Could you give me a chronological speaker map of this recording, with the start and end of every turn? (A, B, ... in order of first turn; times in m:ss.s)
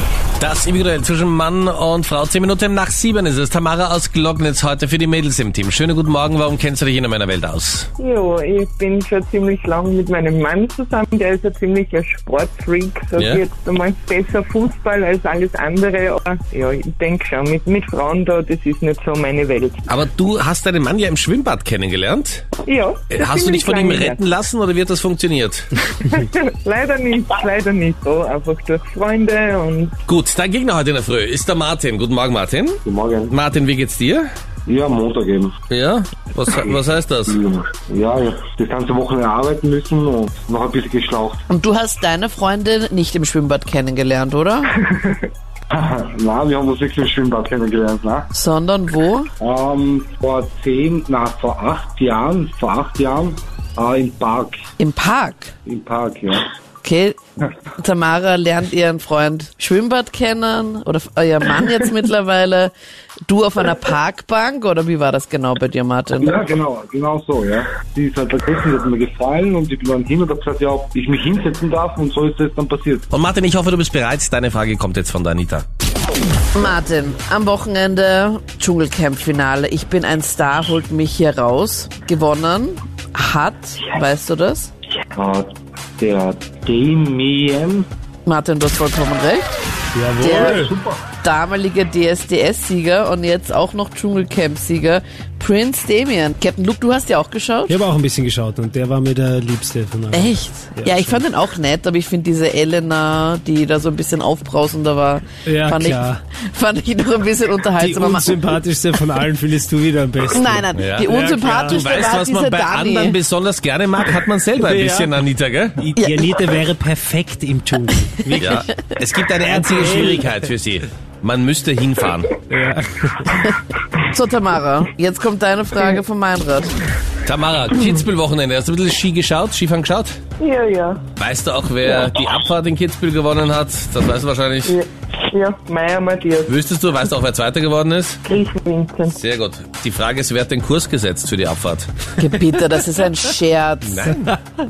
0:00.4-0:07.9 A
0:08.0-0:19.8 B
0:13.2-0:13.4 A
0:19.9-0:22.5 A
0:22.6-0:24.2 B
0:23.1-0:25.7 A
0:25.9-0:30.0 B
0:30.1-0:34.3 A
0:32.8-0:33.3 C
0:34.6-0:35.6 C
0:35.7-0:37.4 A
0:37.3-0:41.4 C
0:41.5-0:44.7 D
0:45.7-0:48.3 C
0:48.3-0:49.3 D
0:49.4-0:54.6 C
0:54.8-0:55.5 D
0:55.6-0:56.5 C
0:56.8-0:57.2 D
0:57.8-1:02.7 D
1:03.3-1:06.4 D
1:06.2-1:13.1 C
1:13.1-1:15.6 A
1:16.5-1:24.7 D
1:25.1-1:27.9 C
1:28.2-1:29.6 D
1:29.9-1:30.7 E
1:30.2-1:30.6 D
1:30.2-1:31.0 C
1:31.2-1:37.8 D
1:37.7-1:41.2 E
1:40.1-1:48.4 D
1:45.4-1:46.2 E
1:47.8-1:51.9 E
1:50.3-1:53.2 D
1:50.7-1:51.1 A
1:51.7-1:55.8 A
1:54.6-1:55.2 E
1:55.8-1:58.7 E
1:56.0-1:56.2 D
1:58.3-1:58.6 D
1:58.4-2:02.4 A
1:59.4-2:00.4 E
2:02.5-2:03.4 E
2:04.0-2:06.7 D
2:07.2-2:10.2 A
2:10.4-2:11.0 B
2:11.2-2:14.8 A
2:14.6-2:16.6 B
2:16.5-2:18.2 A
2:18.2-2:19.2 B
2:19.1-2:21.9 A
2:22.2-2:24.1 D
2:23.8-2:24.4 A